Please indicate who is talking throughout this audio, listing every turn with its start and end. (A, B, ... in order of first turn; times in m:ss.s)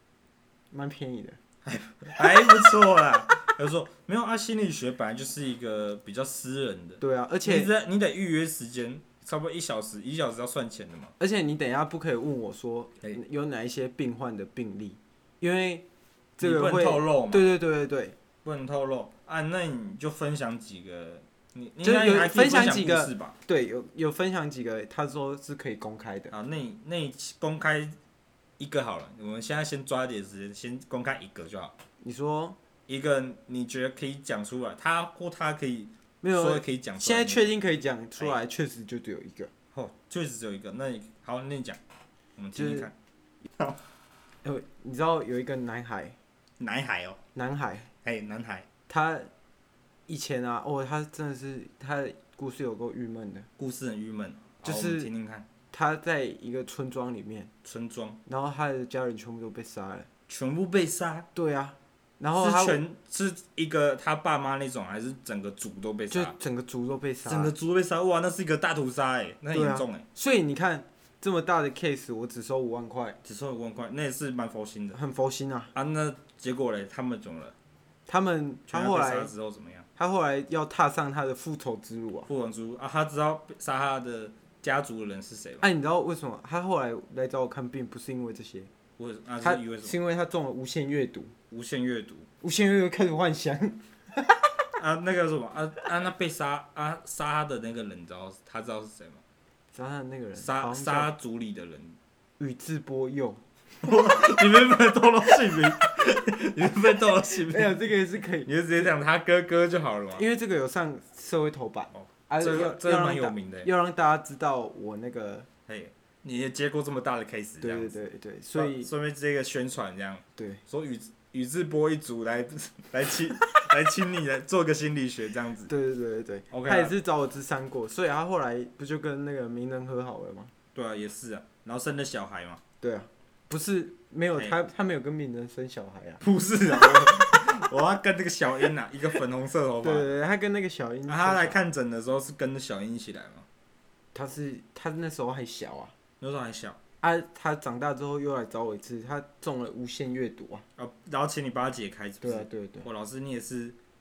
0:00.7-0:01.4 A
0:01.6-0:11.1 B
0:07.0-0:07.7 A
0:11.2-0:15.8 A
0:16.4-0:18.2 A
0:16.4-0:17.5 B
0:18.4-0:23.4 B
0:21.8-0:26.3 A
0:26.3-0:28.0 B
0:28.6-0:31.7 B
0:32.0-0:32.6 A
0:32.9-0:37.5 B
0:36.2-0:39.5 A
0:39.7-0:41.8 B
0:42.4-0:42.9 B
0:42.5-0:42.9 A
0:44.4-0:46.2 A
0:46.6-0:47.2 B
0:47.3-0:47.9 A
0:48.0-0:48.7 B
0:48.9-0:49.3 A
0:50.1-0:53.5 A
0:53.6-0:55.4 B
0:54.6-0:55.1 A
0:55.7-0:57.5 A
0:57.6-0:58.2 B
0:58.2-1:00.1 A
1:00.3-1:01.3 B
1:01.3-1:02.8 A
1:02.4-1:06.3 B
1:06.1-1:07.5 A
1:07.2-1:10.0 B
1:09.5-1:13.2 A
1:13.2-1:15.0 B
1:14.9-1:15.7 A
1:15.7-1:17.5 B
1:18.1-1:19.3 A
1:18.7-1:19.9 B
1:20.0-1:22.3 A
1:22.3-1:25.7 B
1:25.6-1:28.7 A
1:29.0-1:30.0 B
1:29.4-1:31.3 A
1:31.5-1:32.3 B
1:32.4-1:34.5 A
1:34.7-1:39.2 B
1:39.7-1:41.1 A
1:40.4-1:42.0 B
1:42.4-1:43.4 A
1:43.8-1:47.8 B
1:47.4-1:48.9 A
1:48.4-1:50.2 B
1:50.1-1:55.5 A
1:51.9-1:53.7 B
1:55.7-1:57.9 B
1:57.6-1:58.9 A
1:58.5-2:05.7 B
2:00.4-2:00.6 A
2:05.7-2:10.5 A
2:06.5-2:06.9 B
2:10.7-2:12.6 B
2:12.8-2:16.2 A
2:16.2-2:20.1 B
2:16.8-2:17.5 A
2:19.8-2:21.6 A
2:21.1-2:23.5 B
2:24.1-2:25.9 A
2:26.2-2:26.8 B
2:27.0-2:30.6 A
2:30.8-2:33.8 B
2:32.2-2:32.8 A